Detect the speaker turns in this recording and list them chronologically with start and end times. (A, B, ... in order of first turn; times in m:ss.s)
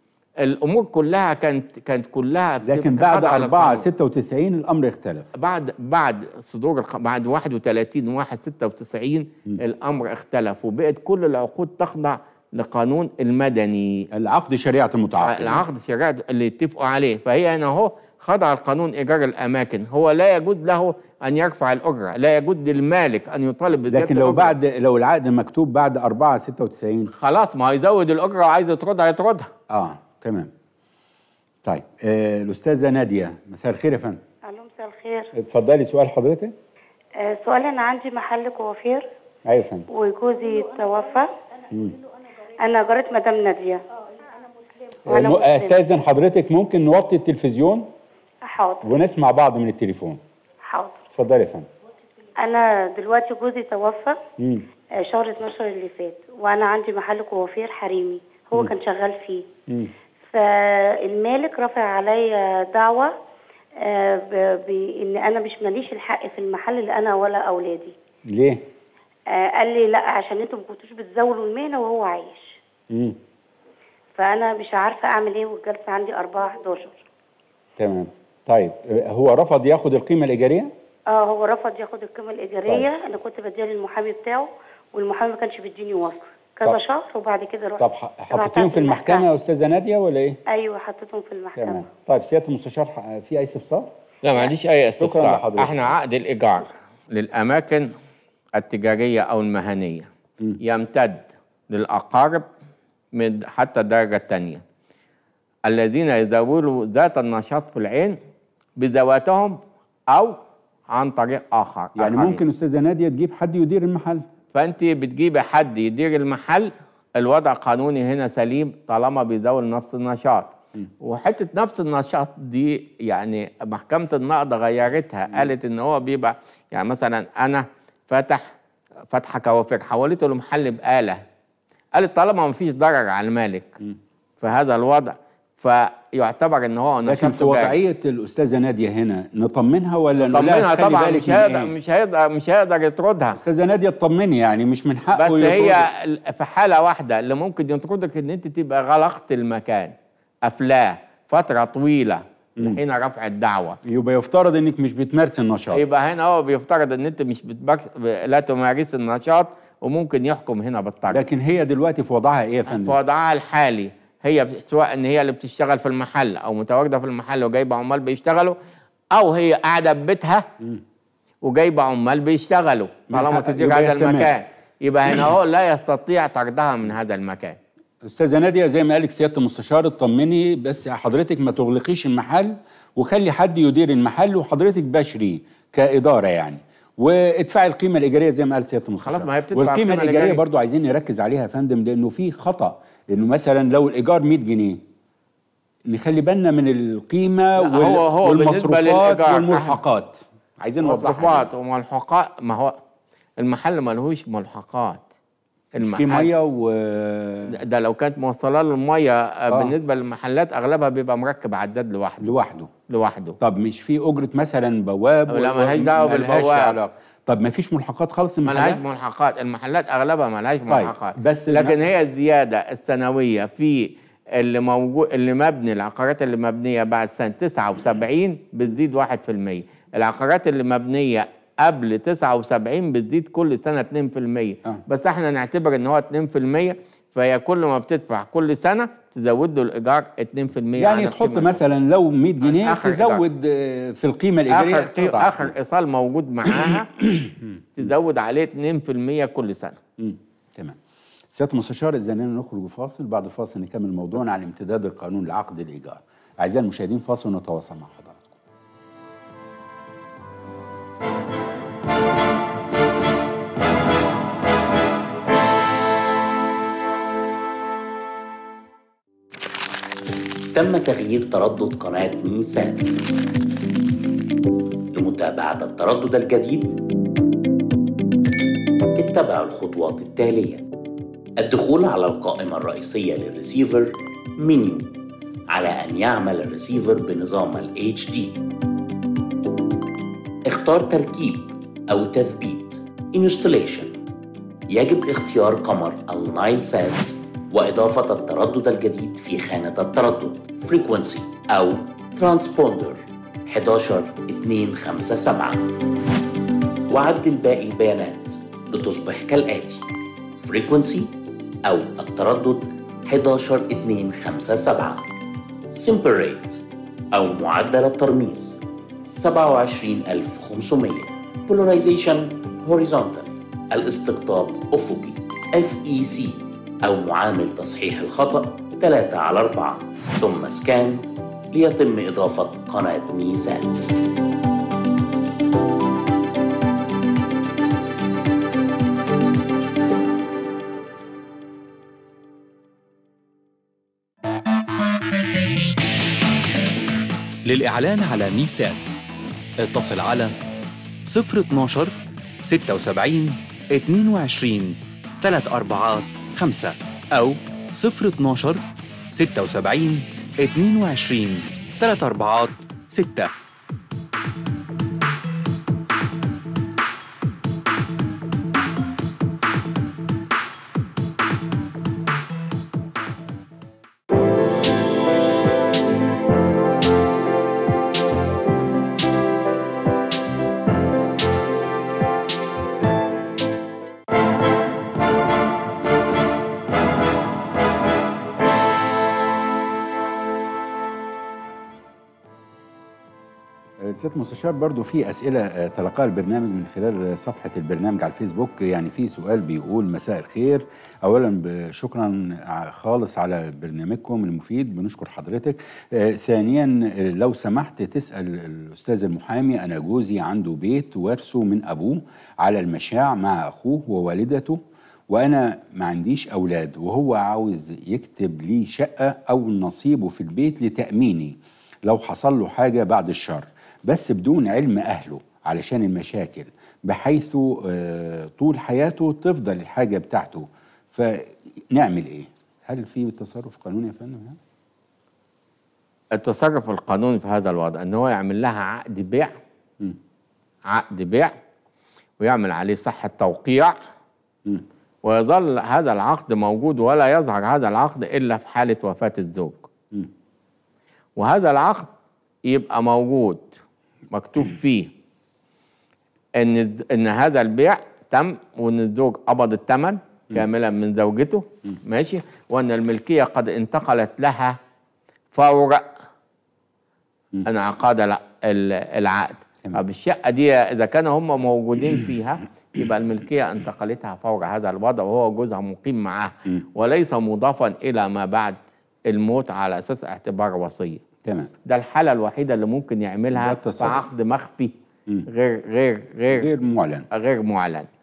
0:00.4-0:03.8 A
0:02.6-0:05.3 B
0:05.3-0:14.0 A
0:14.1-0:15.6 B
0:15.2-0:24.5 A
0:23.9-0:27.1 B
0:27.1-0:29.5 A
0:29.7-0:30.5 B
0:31.6-0:34.2 B
0:34.4-0:35.3 C
0:35.4-0:36.5 B
0:37.2-0:39.1 C
0:39.4-0:39.8 B
0:39.9-0:41.3 C
0:42.5-0:43.8 C
0:45.1-0:47.9 B
0:45.1-0:45.8 C
0:48.4-0:48.9 C
0:48.8-0:50.2 B
0:50.6-0:51.0 C
0:51.1-0:51.7 B
0:52.4-0:54.2 C
0:54.4-0:54.6 B
0:55.0-0:59.4 C
1:00.3-1:03.1 C
1:03.8-1:07.9 C
1:08.3-1:08.6 B
1:09.3-1:12.6 C
1:12.9-1:13.2 B
1:14.2-1:17.0 C
1:17.8-1:20.7 B
1:21.1-1:29.3 C
1:22.7-1:23.0 B
1:27.8-1:30.4 B
1:30.5-1:31.8 C
1:31.6-1:35.9 B
1:34.2-1:37.9 A
1:38.6-1:40.1 A
1:40.6-1:42.4 A
1:43.1-1:44.6 A
1:45.7-1:48.2 A
1:48.8-1:49.6 A
1:50.1-1:50.4 A
1:50.9-1:52.4 A
1:52.0-1:54.2 B
1:54.5-2:08.4 A
2:09.1-2:11.2 A
2:11.9-2:13.7 A
2:14.4-2:17.8 A
2:17.0-2:21.7 B
2:20.3-2:23.4 A
2:23.4-2:25.9 B
2:25.1-2:29.9 A
2:30.4-2:33.8 A
2:33.8-2:35.8 B
2:35.7-2:41.2 A
2:41.1-2:43.0 B
2:42.7-2:48.6 A
2:49.1-2:50.4 A
2:51.4-2:57.6 A
2:53.1-2:54.3 B
2:58.0-3:14.8 B
3:09.0-3:10.4 A
3:15.9-3:21.5 B
3:17.6-3:19.8 A
3:20.8-3:22.8 A
3:23.4-3:25.0 A
3:25.8-3:26.3 A
3:25.8-3:27.6 B
3:27.5-3:32.3 A
3:32.2-3:32.7 B
3:32.9-3:33.4 A
3:33.4-3:38.8 B
3:35.3-3:36.8 A
3:38.4-4:01.6 A
3:40.7-3:41.8 B
4:00.8-4:05.5 B
4:02.4-4:03.2 A
4:04.5-4:06.9 A
4:07.1-4:07.5 B
4:07.8-4:09.8 A
4:10.0-4:10.8 B
4:11.3-4:18.4 B
4:30.5-4:33.0 D
4:34.9-4:36.8 D
4:39.0-4:40.6 D
4:41.4-4:44.9 D
4:45.5-4:48.4 D
4:50.4-4:54.0 D
4:54.7-5:05.6 D
5:06.9-5:09.9 D
5:10.4-5:15.0 D
5:15.7-5:33.8 D
5:47.4-5:49.0 E
5:49.6-5:50.3 E
5:51.1-5:51.9 E
5:52.4-6:03.3 E
6:33.8-7:14.4 B
7:16.1-7:19.3 A
7:20.6-7:21.3 A
7:22.2-7:23.7 A
7:25.0-7:29.7 A
7:31.2-7:31.9 A
7:32.4-7:33.5 A
7:34.1-7:34.9 A
7:36.4-7:44.6 A
7:45.3-7:45.8 A
7:47.4-8:01.0 A
8:01.2-8:01.5 B
8:01.7-8:04.7 A
8:03.3-8:04.0 B
8:05.3-8:06.5 A
8:06.3-8:07.0 B
8:07.1-8:07.9 A